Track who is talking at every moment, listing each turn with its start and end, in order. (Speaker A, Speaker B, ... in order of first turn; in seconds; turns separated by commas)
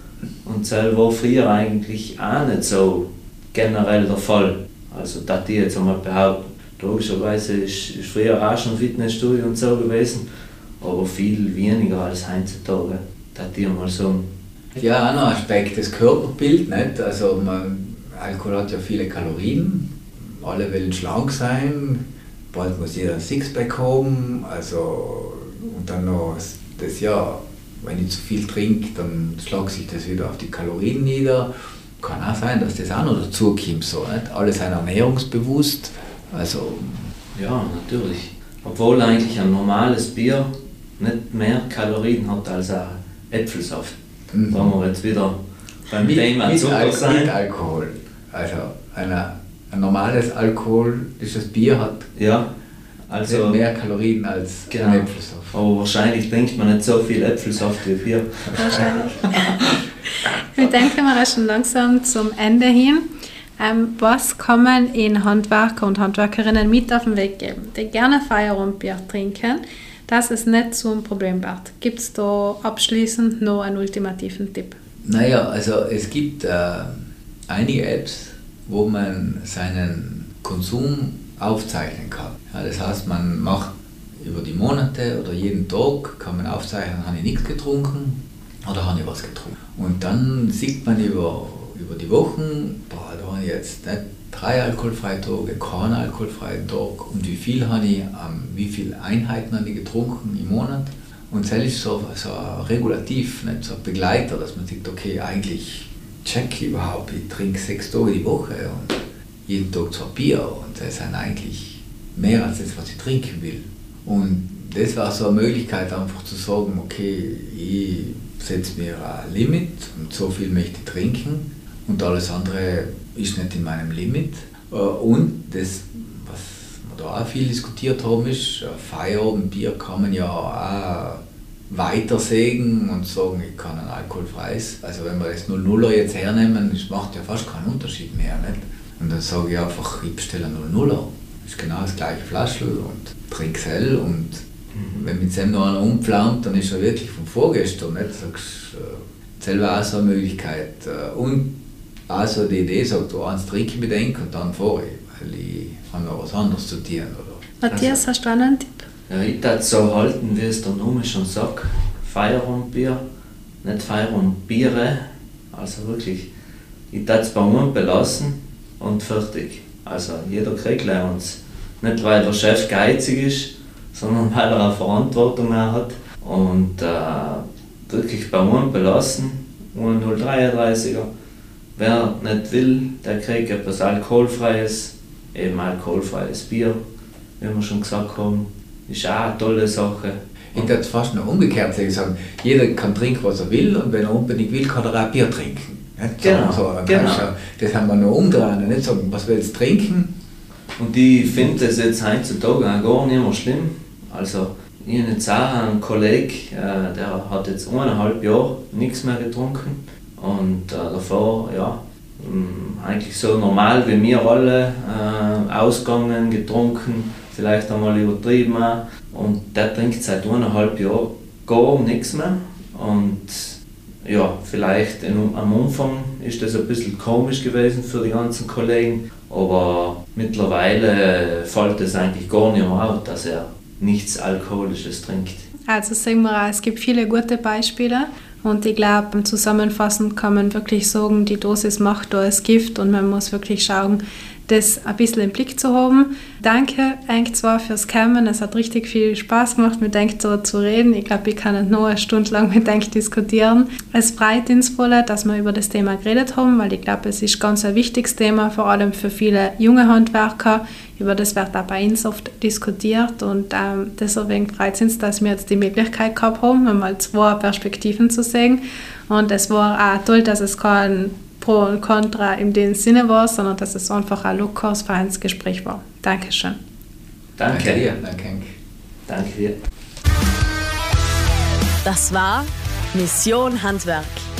Speaker A: 0.5-10.2, Speaker A: 10.8-14.3, Speaker B: 14.8-37.1, Speaker A: 37.4-44.0, Speaker B: 44.3-44.7, Speaker A: 44.5-47.3, Speaker B: 46.0-52.1, Speaker A: 52.1-52.5, Speaker A: 53.1-53.6, Speaker B: 53.3-55.5, Speaker A: 54.7-58.9, Speaker C: 58.6-59.5, Speaker C: 60.5-63.0, Speaker C: 63.6-74.8, Speaker B: 75.0-144.4, Speaker A: 144.8-145.1, Speaker B: 144.9-151.5, Speaker B: 152.1-157.6, Speaker C: 157.6-158.8, Speaker A: 157.7-158.0, Speaker A: 159.1-163.0, Speaker A: 163.6-166.3, Speaker A: 166.9-181.1, Speaker A: 181.8-186.8, Speaker A: 187.4-190.7, Speaker B: 190.5-200.1, Speaker A: 196.2-197.3, Speaker A: 200.8-235.5, Speaker C: 235.7-276.6, Speaker A: 277.4-277.9, Speaker B: 277.5-278.5, Speaker A: 279.1-279.6, Speaker D: 281.8-284.2